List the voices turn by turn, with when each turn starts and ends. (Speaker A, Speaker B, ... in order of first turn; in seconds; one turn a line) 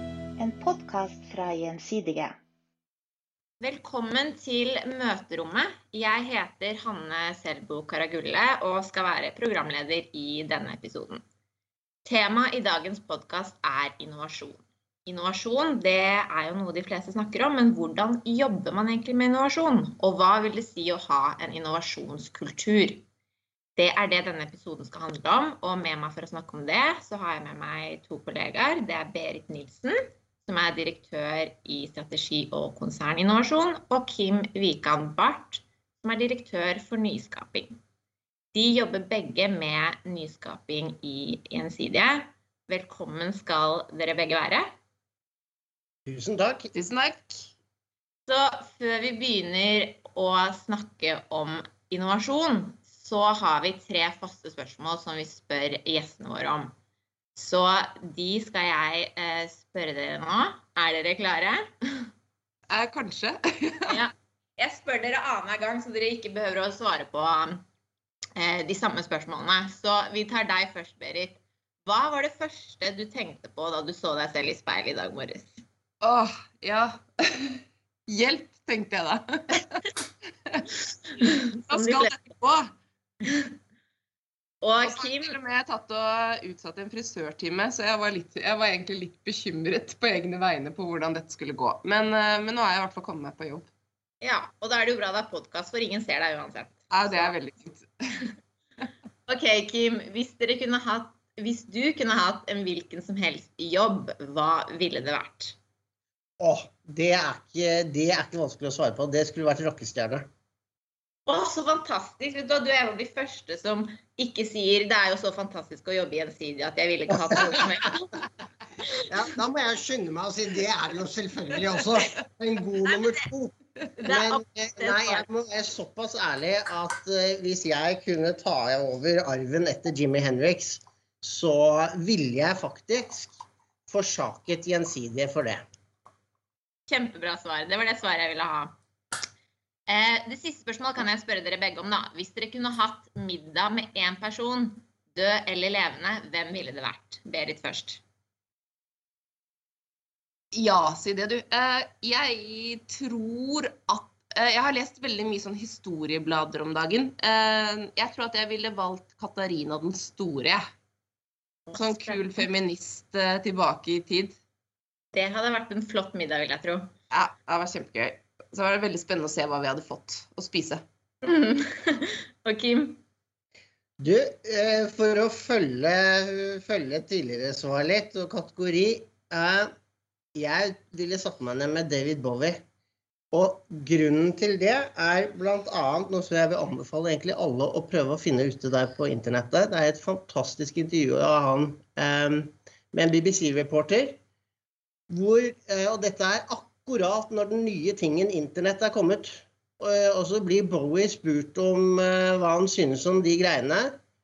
Speaker A: 0.4-2.4
Speaker B: 3.6-11.2
Speaker B: 12.1-23.1
Speaker B: 23.8-37.8
Speaker B: 38.5-44.7
Speaker C: 46.1-46.7
Speaker D: 46.7-47.5
Speaker B: 48.3-56.7
Speaker B: 57.4-62.1
Speaker D: 62.7-64.0
Speaker B: 63.9-67.6
Speaker B: 68.4-75.6
Speaker D: 76.0-79.9
Speaker B: 81.2-82.2
Speaker D: 81.7-82.7
Speaker B: 83.2-83.5
Speaker B: 84.6-85.3
Speaker D: 84.8-93.7
Speaker B: 94.2-97.4
Speaker D: 96.9-97.9
Speaker B: 99.3-105.6
Speaker C: 106.4-110.3
Speaker B: 111.3-118.2
Speaker C: 119.1-135.7
Speaker B: 124.0-125.3
Speaker B: 136.9-138.8
Speaker B: 139.9-148.0
Speaker D: 150.5-160.6
Speaker B: 161.7-162.4
Speaker D: 161.8-164.4
Speaker B: 165.1-166.9
Speaker D: 167.1-170.8
Speaker B: 171.2-173.0
Speaker C: 174.0-179.7
Speaker C: 180.3-182.6
Speaker C: 183.3-194.2
Speaker C: 195.1-204.0